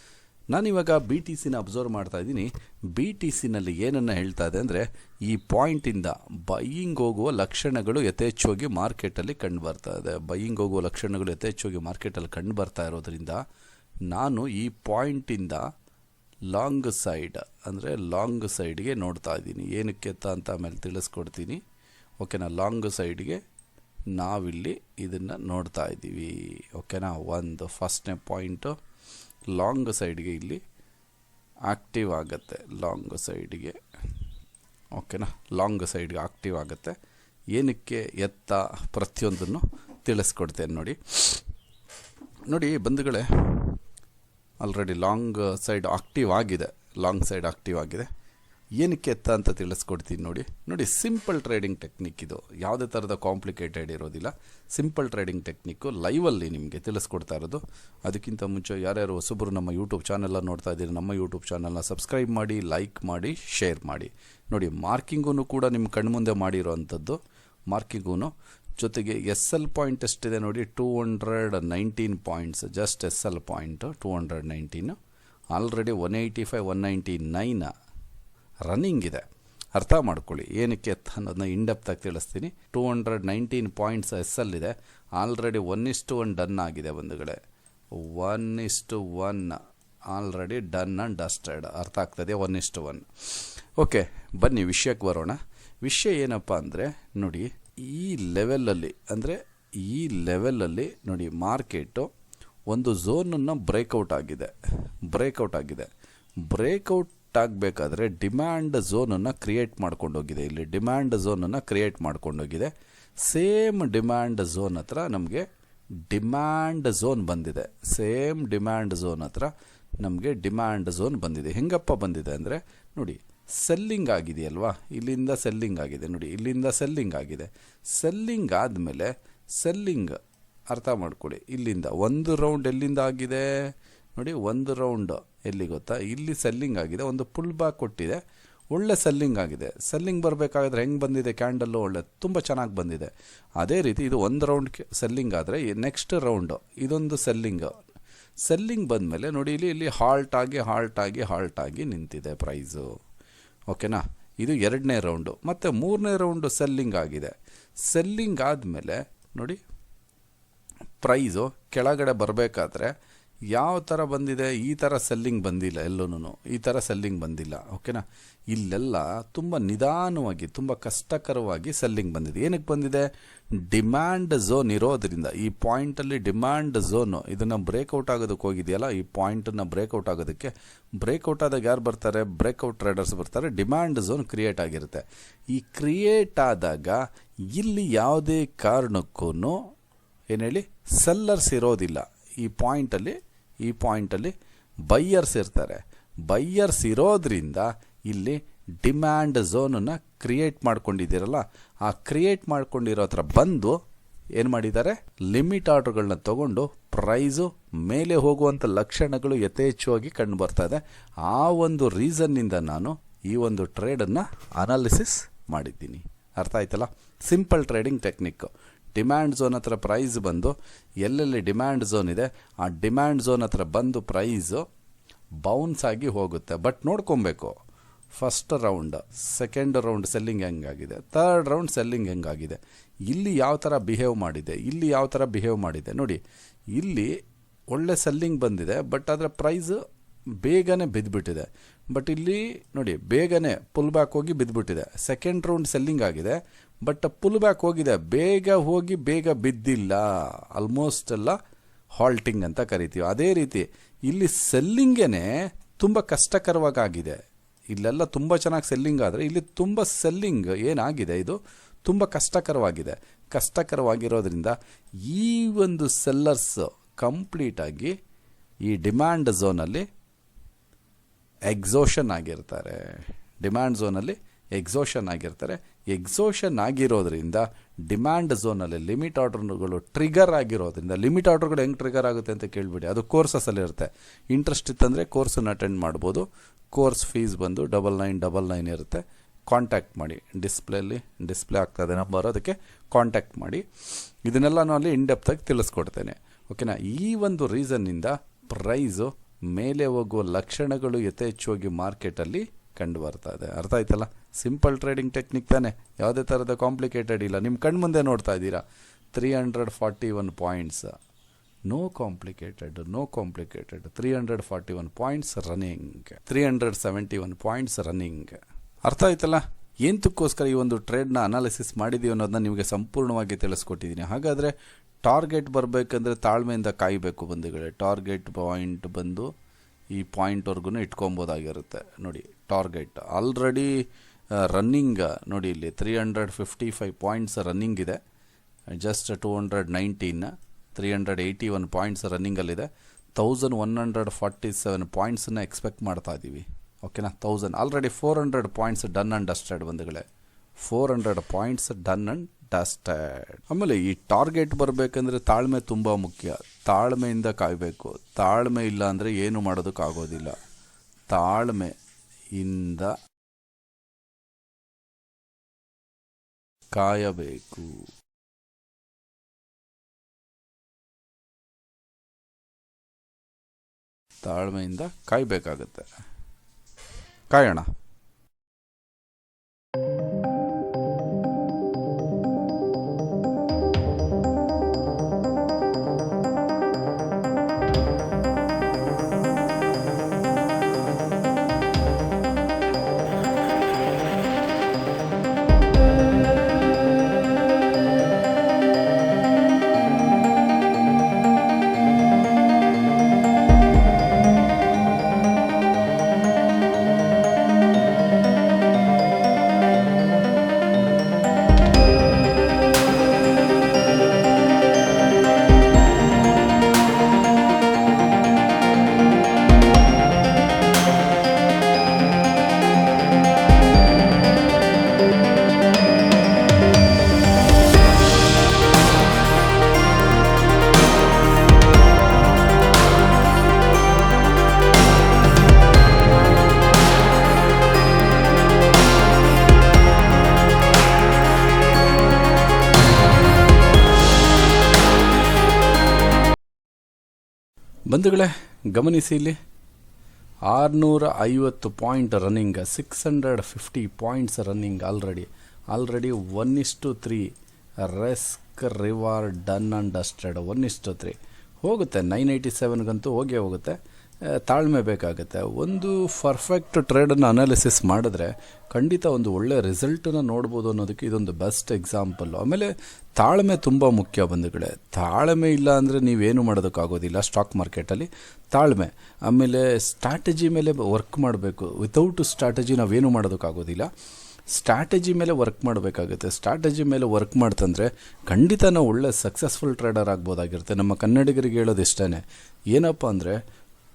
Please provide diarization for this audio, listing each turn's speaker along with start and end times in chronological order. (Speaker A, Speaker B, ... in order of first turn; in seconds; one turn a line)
Speaker A: 0.5-13.4
Speaker A: 14.1-15.7
Speaker A: 16.5-21.6
Speaker A: 22.2-23.4
Speaker A: 24.1-28.8
Speaker A: 29.5-30.6
Speaker A: 31.7-33.8
Speaker A: 34.9-37.0
Speaker A: 37.5-41.4
Speaker A: 42.5-43.8
Speaker A: 44.6-48.1
Speaker A: 48.8-67.2
Speaker A: 67.7-75.0
Speaker A: 75.5-77.7
Speaker A: 78.7-87.4
Speaker A: 88.0-102.1
Speaker A: 102.7-104.5
Speaker A: 105.1-105.9
Speaker A: 106.4-115.5
Speaker A: 116.0-147.8
Speaker A: 148.4-152.9
Speaker A: 153.7-159.6
Speaker A: 161.0-162.9
Speaker A: 163.5-173.1
Speaker A: 173.6-189.6
Speaker A: 190.3-194.3
Speaker A: 194.9-203.8
Speaker A: 204.3-224.6
Speaker A: 225.4-227.5
Speaker A: 228.1-236.2
Speaker A: 236.7-237.1
Speaker A: 237.7-239.8
Speaker A: 240.4-251.4
Speaker A: 251.9-257.2
Speaker A: 257.7-267.9
Speaker A: 268.6-269.9
Speaker A: 271.5-293.6
Speaker A: 294.2-310.9
Speaker A: 311.7-329.3
Speaker A: 329.9-338.0
Speaker A: 338.7-350.0
Speaker A: 350.6-360.4
Speaker A: 361.1-361.7
Speaker A: 362.3-362.9
Speaker A: 366.7-367.9
Speaker A: 374.2-375.9
Speaker A: 377.3-377.7
Speaker A: 447.9-449.4
Speaker A: 450.5-457.3
Speaker A: 457.8-483.9
Speaker A: 484.5-493.4